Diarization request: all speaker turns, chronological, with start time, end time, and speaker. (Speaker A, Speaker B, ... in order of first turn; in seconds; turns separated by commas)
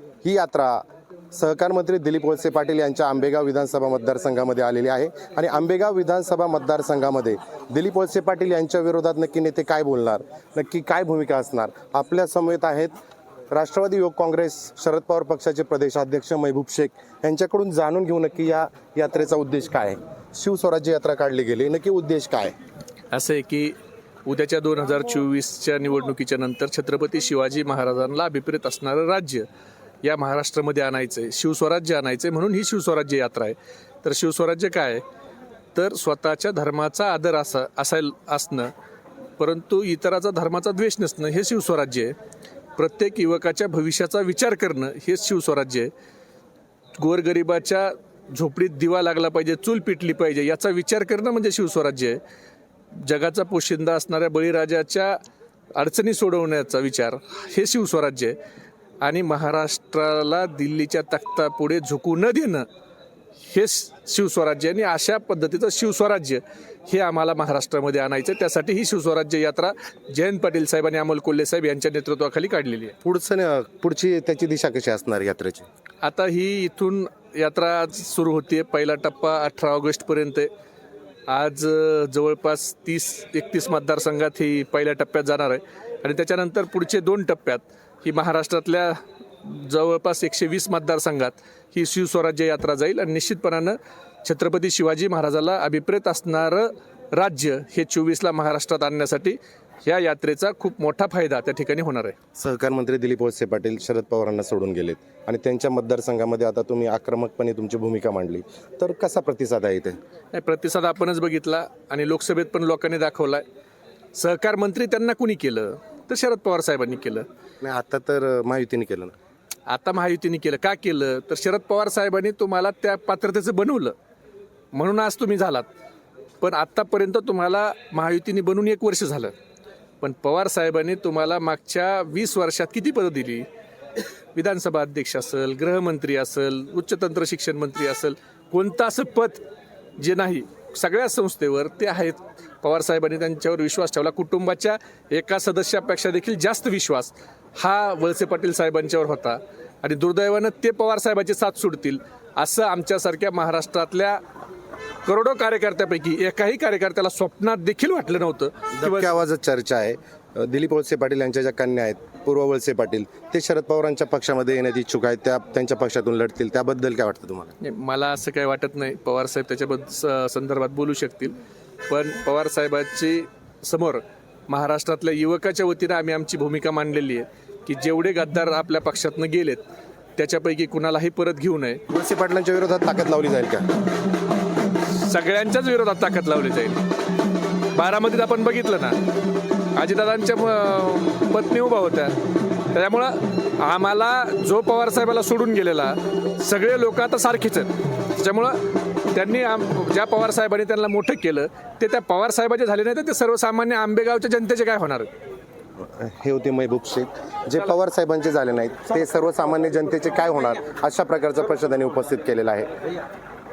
Speaker A: 0.2-12.9, Speaker A: 13.5-22.5, Speaker B: 23.1-23.7, Speaker B: 24.2-29.4, Speaker B: 30.0-35.0, Speaker B: 35.7-38.7, Speaker B: 39.4-42.1, Speaker B: 42.8-45.9, Speaker B: 47.0-52.2, Speaker B: 52.9-55.2, Speaker B: 55.8-58.4, Speaker B: 59.0-62.6, Speaker B: 63.5-72.9, Speaker A: 73.0-75.7, Speaker B: 76.0-80.5, Speaker B: 81.3-102.2, Speaker A: 102.3-110.0, Speaker B: 110.3-113.4, Speaker B: 114.1-117.2, Speaker A: 117.6-119.1, Speaker B: 119.7-123.9, Speaker B: 124.7-125.7, Speaker B: 126.4-129.3, Speaker B: 130.0-133.5, Speaker B: 134.3-139.4, Speaker B: 140.0-154.2, Speaker B: 155.1-159.1, Speaker A: 158.8-167.5, Speaker B: 167.6-171.3, Speaker B: 171.9-179.6, Speaker B: 180.2-181.8, Speaker A: 181.9-183.7, Speaker B: 184.9-186.8, Speaker B: 187.7-188.9, Speaker B: 189.8-192.1, Speaker B: 192.7-198.6, Speaker B: 199.1-205.1, Speaker A: 205.9-212.7